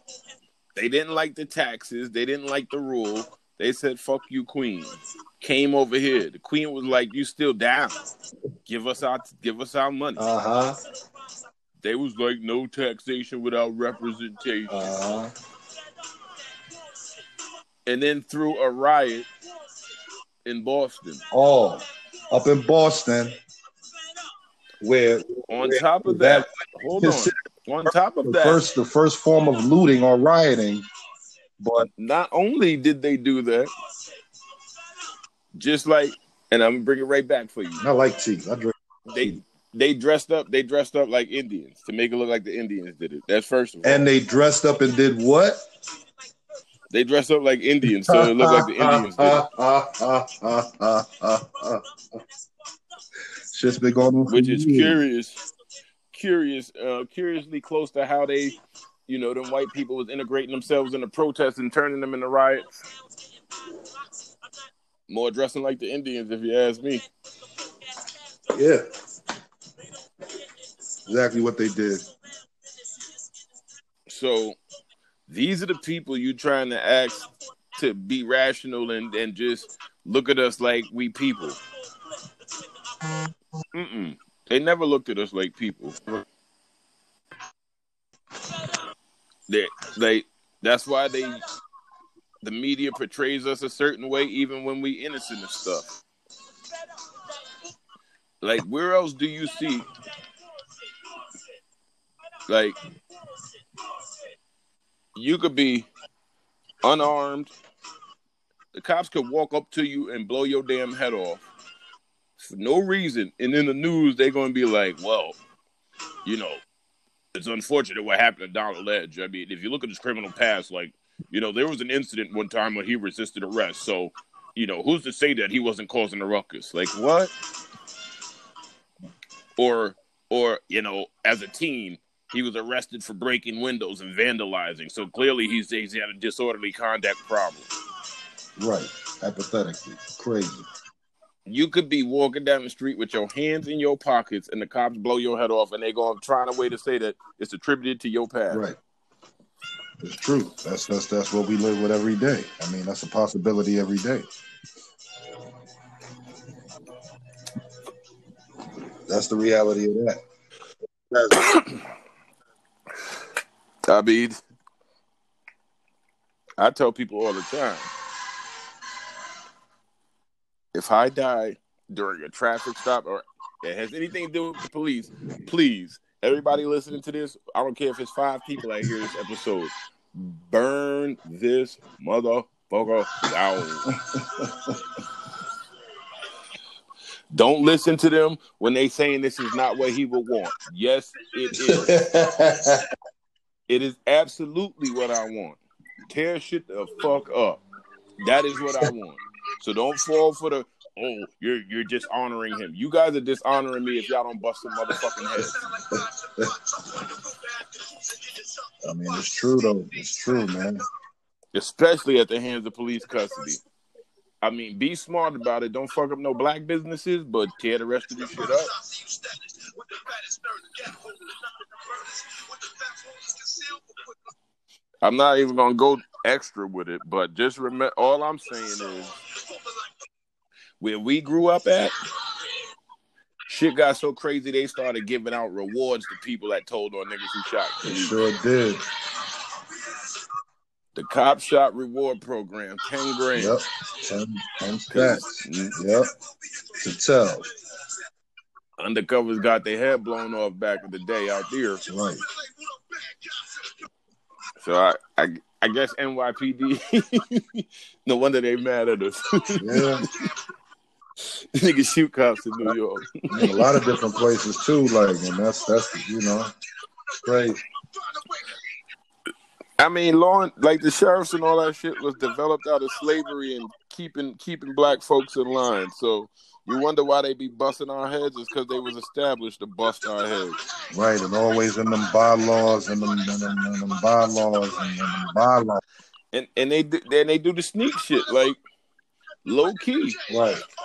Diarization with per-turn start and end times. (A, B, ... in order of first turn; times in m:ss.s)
0:00.8-0:08.0 A
0:08.6-0:10.2 A
0:10.2-0:10.8 B
0:11.8-0:14.9 A
0:14.7-0:15.3 B
0:17.8-0:19.3 A
0:20.4-0:21.2 A
0:21.3-0:23.4 B
0:24.8-0:27.3 B
0:25.5-0:28.6 A
0:27.8-0:30.9 B
0:31.6-0:31.9 B
0:31.8-0:33.7 A
0:35.5-0:37.8 A
0:37.8-0:39.4 B
0:39.1-0:44.0 A
0:43.8-0:45.6 B
0:46.9-0:49.4 A
0:47.9-0:51.8 B
0:53.5-0:55.0 B
0:54.3-0:55.4 A
0:56.1-0:58.6 A
0:59.1-1:02.8 A
1:05.1-1:07.0 A
1:08.5-1:08.8 B
1:11.0-1:12.0 B
1:14.1-1:14.6 A
1:15.3-1:21.6 A
1:23.7-1:26.0 A
1:29.5-1:31.4 A
1:32.4-1:35.8 A
1:38.4-1:39.9 A
1:42.5-1:42.8 A
1:45.1-1:45.9 A
1:46.8-1:47.5 A
1:48.7-1:51.5 A
1:52.4-1:55.4 A
1:56.2-1:56.6 A
1:57.3-2:07.3 A
2:09.6-2:17.7 A
2:18.6-2:20.7 B
2:21.4-2:28.6 A
2:28.5-2:28.8 B
2:30.0-2:34.3 B
2:39.1-2:40.2 B
2:41.1-2:41.6 B
2:43.9-2:44.4 A
2:46.6-2:47.9 A
2:50.7-3:03.9 A
3:03.9-3:04.8 B
3:07.3-3:12.0 A
3:11.5-3:12.9 B
3:13.7-3:17.6 A
3:18.2-3:25.6 A
3:25.9-3:26.7 B
3:28.8-3:30.8 B
3:31.5-3:33.6 A
3:34.4-3:38.7 A
3:45.0-3:49.2 A
3:50.8-3:51.9 A
3:53.5-3:58.2 A
3:57.8-3:58.8 B
4:00.9-4:03.6 A
4:03.3-4:06.1 B
4:04.9-4:05.8 A
4:06.8-4:07.5 B
4:08.8-4:11.8 A
4:11.8-4:12.2 B
4:14.6-4:20.2 A
4:19.6-4:20.0 B
4:21.2-4:23.6 A
4:23.3-4:26.5 B
4:27.2-4:27.6 B
4:29.8-4:40.6 A
4:40.9-4:45.8 B
4:46.3-4:48.6 A
4:49.4-4:50.2 A
4:50.3-4:50.7 B